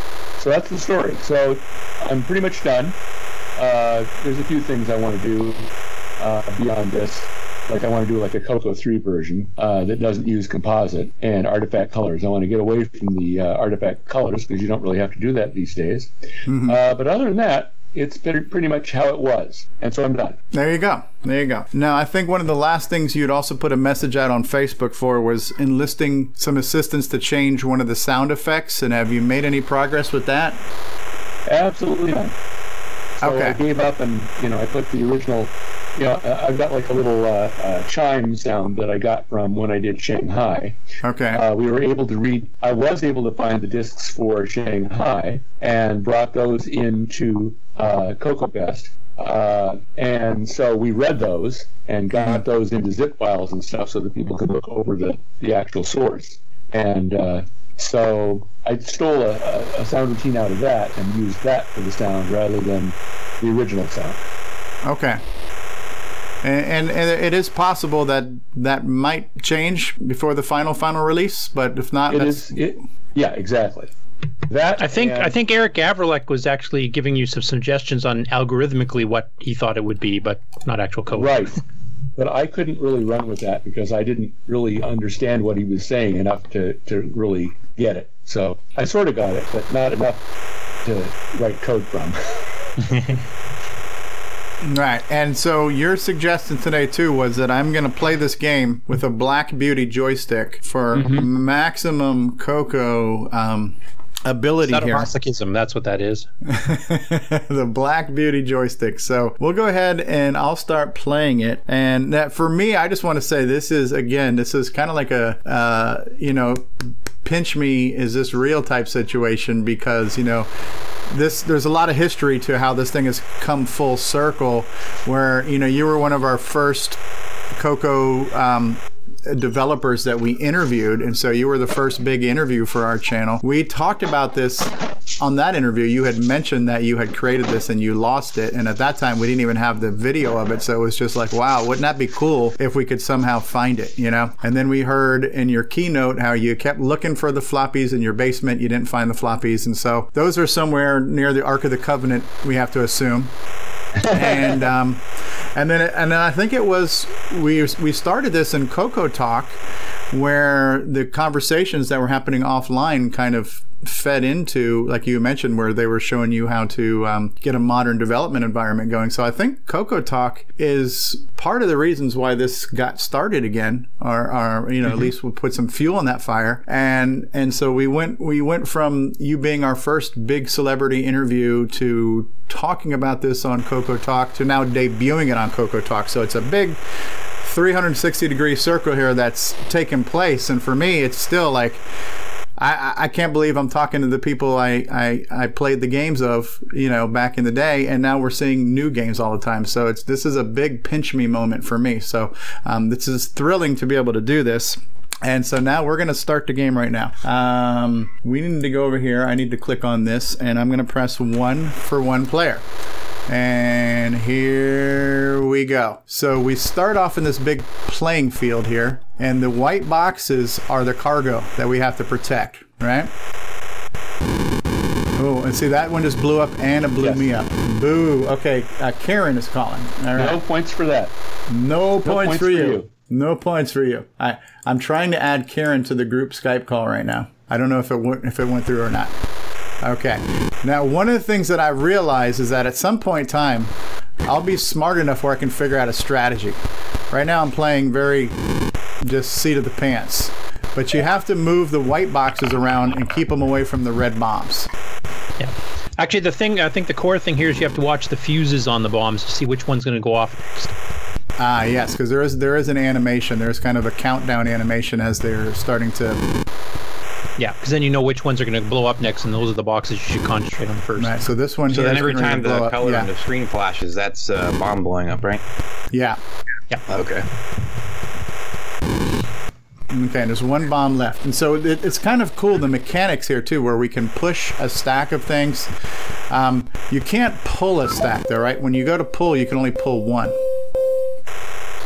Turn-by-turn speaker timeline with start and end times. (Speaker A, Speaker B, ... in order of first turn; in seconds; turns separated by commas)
Speaker A: 0.4-3.0, Speaker A: 3.6-5.7, Speaker A: 6.2-16.1, Speaker B: 16.5-16.8, Speaker A: 16.7-20.4, Speaker B: 20.5-30.6, Speaker A: 31.5-32.3, Speaker A: 33.2-40.8, Speaker B: 33.2-33.6, Speaker B: 41.0-41.4, Speaker A: 41.3-64.2, Speaker B: 64.8-65.2, Speaker B: 66.4-72.6, Speaker A: 72.1-73.9, Speaker A: 74.5-75.3, Speaker C: 74.8-81.5, Speaker A: 81.1-81.6, Speaker A: 82.2-90.2, Speaker A: 90.8-92.2, Speaker B: 94.6-105.1, Speaker A: 100.9-101.3, Speaker C: 104.7-106.3, Speaker B: 106.5-120.5, Speaker B: 121.1-127.0, Speaker B: 127.6-153.3, Speaker A: 154.0-154.6, Speaker B: 154.1-155.0, Speaker B: 155.6-186.8, Speaker B: 187.4-191.8, Speaker B: 192.6-212.6, Speaker B: 213.3-223.1, Speaker B: 225.2-230.4, Speaker A: 230.2-231.1, Speaker B: 231.5-239.2, Speaker A: 232.0-232.9, Speaker B: 239.8-248.4, Speaker B: 249.0-254.7, Speaker C: 255.4-260.7, Speaker B: 261.4-266.2, Speaker C: 267.4-271.3, Speaker B: 271.0-273.1, Speaker D: 271.7-275.4, Speaker B: 275.9-276.2, Speaker D: 276.9-277.2, Speaker B: 279.9-285.7, Speaker B: 286.3-290.4